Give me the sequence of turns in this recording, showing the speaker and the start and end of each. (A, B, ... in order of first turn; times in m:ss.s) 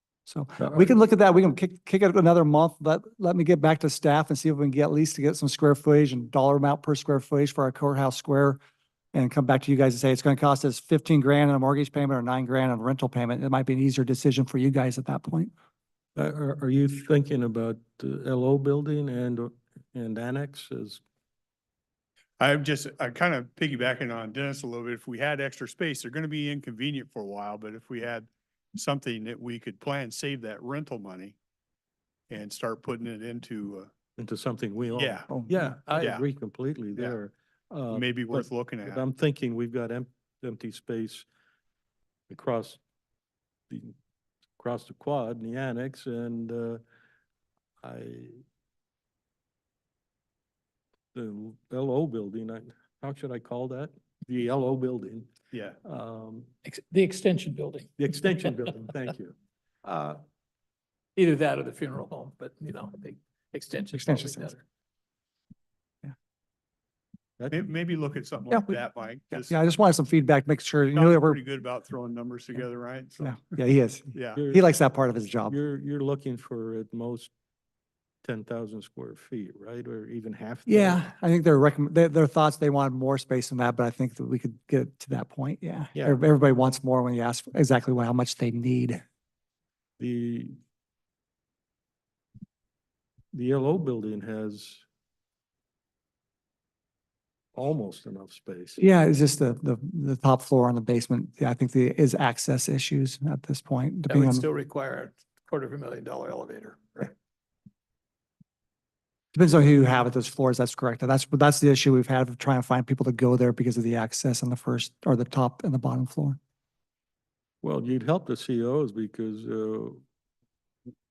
0:00.3-0:08.6 A
0:09.1-0:15.5 A
0:16.2-0:21.0 B
0:22.4-0:31.4 C
0:32.3-0:33.9 C
0:34.2-0:41.3 B
0:35.0-0:36.2 C
0:35.3-0:35.8 A
0:37.9-0:39.0 C
0:42.3-0:42.8 B
0:43.7-0:43.9 B
0:44.6-0:46.8 B
0:47.8-0:48.4 B
0:51.1-0:55.3 B
0:55.5-0:55.8 C
0:55.8-0:56.5 B
0:56.6-0:58.5 D
0:58.0-0:59.4 B
0:59.8-1:00.2 D
1:01.2-1:04.6 D
1:03.9-1:04.5 A
1:07.5-1:09.6 C
1:08.5-1:11.4 A
1:10.9-1:13.5 C
1:13.2-1:15.5 A
1:14.1-1:14.4 C
1:14.4-1:14.7 B
1:15.4-1:17.3 B
1:18.2-1:21.0 B
1:20.6-1:29.0 A
1:30.0-1:30.6 B
1:33.3-1:34.8 B
1:37.5-1:38.8 B
1:38.8-1:44.4 A
1:44.1-1:47.1 D
1:49.3-1:56.4 A
1:57.6-2:00.0 B